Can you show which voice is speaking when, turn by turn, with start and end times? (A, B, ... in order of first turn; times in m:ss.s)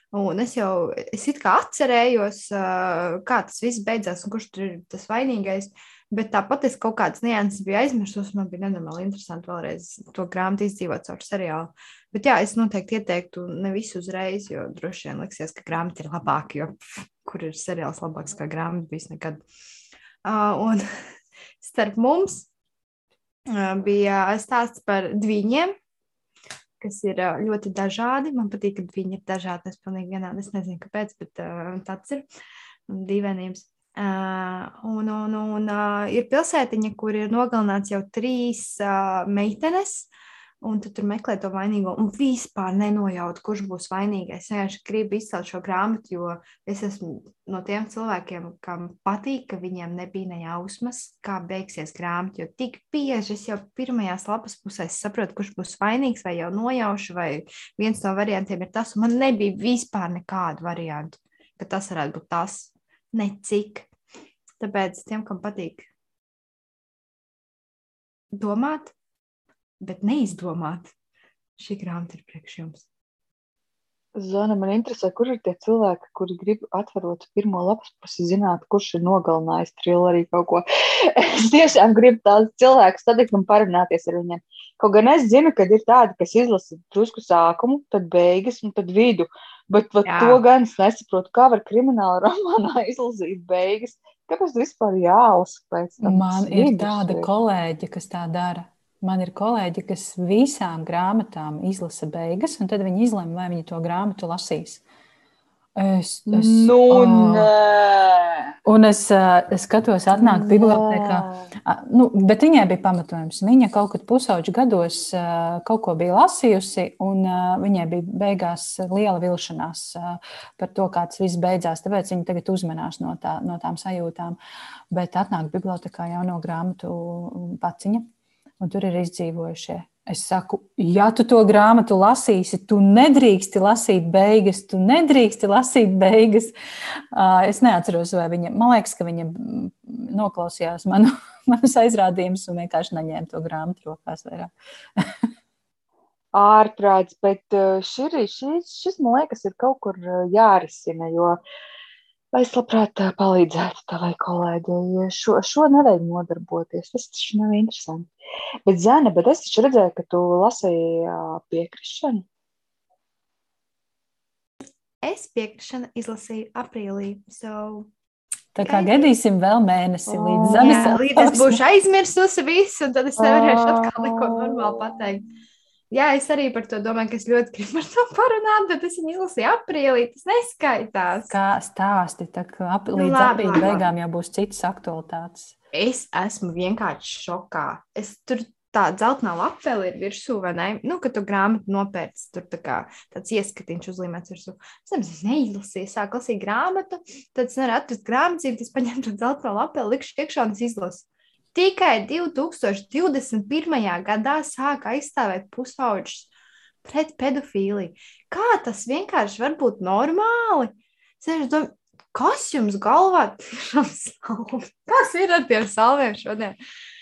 0:00.1-0:19.4 A
0:20.2-0:20.8 A
0:21.6-0:22.5 A
0:23.5-0:25.7 A
0:26.8-0:32.2 A
0:32.9-0:40.1 A
0:40.6-1:03.9 A
1:04.6-1:05.9 A
1:08.3-1:08.9 A
1:09.8-1:10.9 A
1:11.6-1:12.8 A
1:14.2-1:37.3 B
1:30.0-1:30.4 A
1:36.0-1:44.8 C
1:45.8-1:47.5 C
1:46.3-1:48.5 B
1:48.6-2:04.4 C
1:50.1-1:51.4 B
2:04.9-2:08.0 C
2:08.6-2:16.5 C
2:17.1-2:25.1 C
2:26.3-2:31.4 B
2:32.3-2:38.1 B
2:38.6-2:42.2 B
2:45.0-2:47.9 A
2:48.5-2:51.6 C
2:48.6-2:49.1 A
2:50.1-2:51.0 B
2:50.6-2:55.3 A
2:53.2-2:55.0 B
2:55.9-3:01.3 A
3:01.3-3:05.5 C
3:02.9-3:03.8 A
3:05.7-3:26.3 A
3:26.8-3:36.6 A